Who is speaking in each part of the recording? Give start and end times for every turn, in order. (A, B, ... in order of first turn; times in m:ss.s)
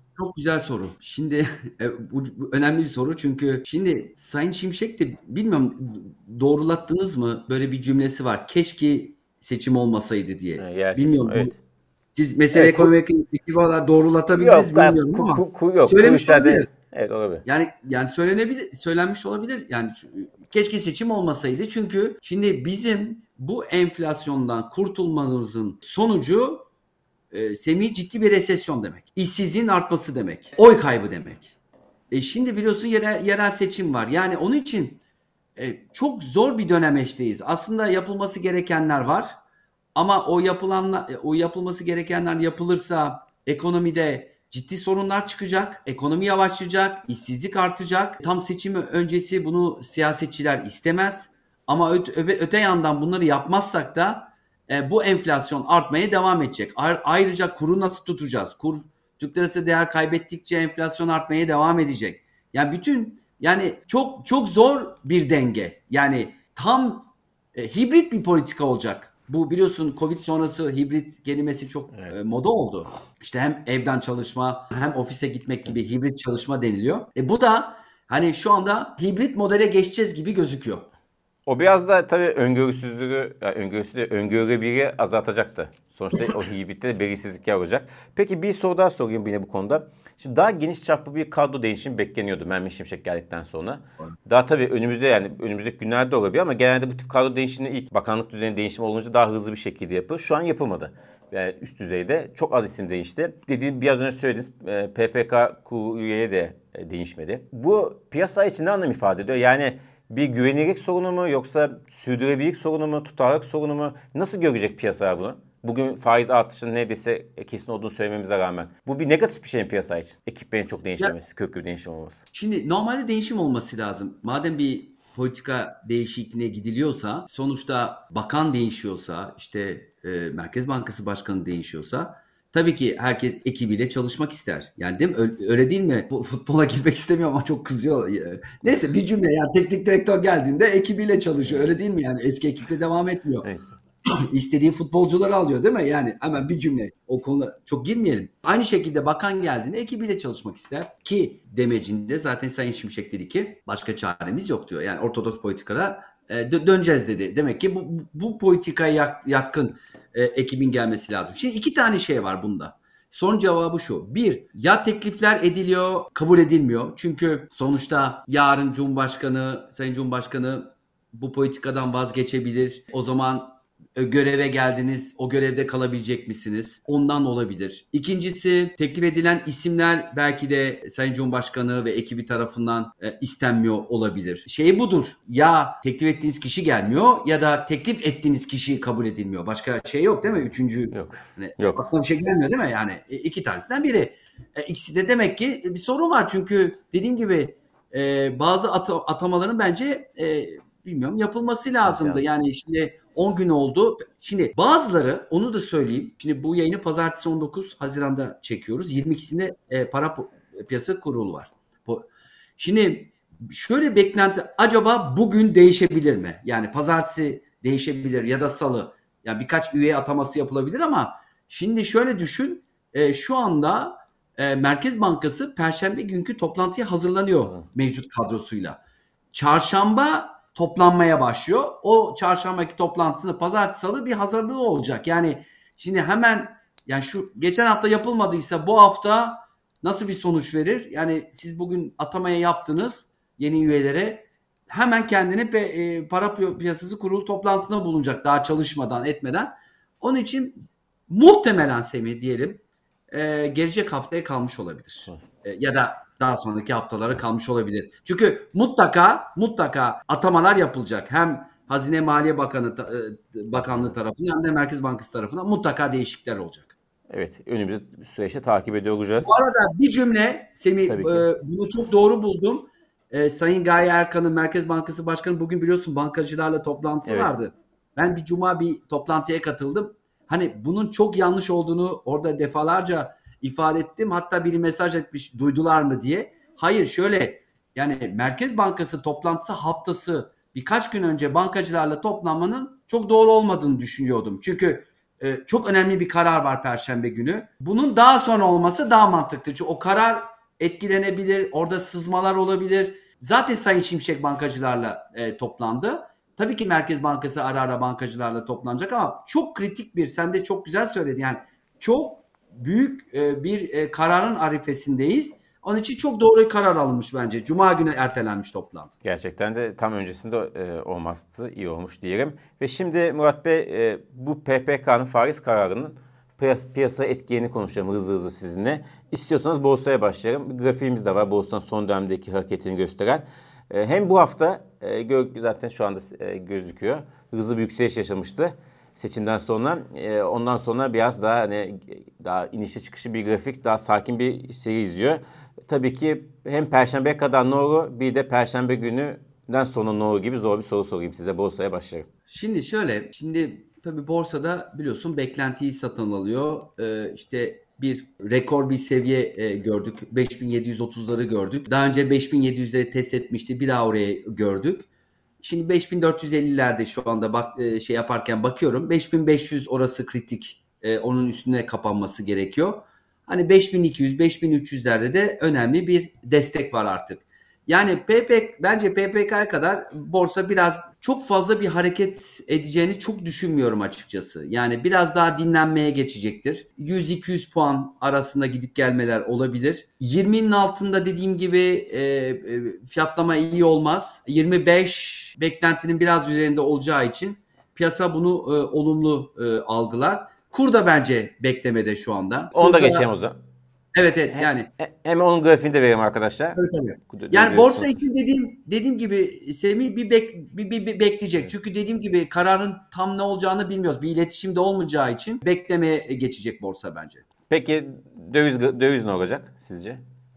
0:00.2-0:11.5 A
0:10.6-0:11.6 B
0:12.1-0:16.7 A
0:12.5-0:12.9 B
0:14.4-0:17.4 B
0:17.4-0:26.6 A
0:27.3-0:31.6 A
0:32.1-0:35.0 A
0:35.6-0:39.4 A
0:39.9-1:20.9 A
1:21.4-2:02.2 B
2:02.3-2:23.5 A
2:23.4-2:23.7 B
2:24.3-3:48.8 A
3:10.9-3:11.8 B
3:21.8-3:22.2 B
3:49.3-4:10.6 A
4:11.1-4:26.8 A
4:27.1-4:29.3 B
4:29.2-5:18.9 A
4:30.9-4:31.2 B
4:37.1-4:37.3 B
5:19.0-5:52.1 B
5:52.3-6:04.9 A
6:05.4-6:43.1 A
6:42.5-6:43.4 B
6:43.9-6:44.7 A
6:44.3-6:46.6 B
6:46.6-6:57.2 A
6:47.1-6:47.9 B
6:57.5-7:00.0 B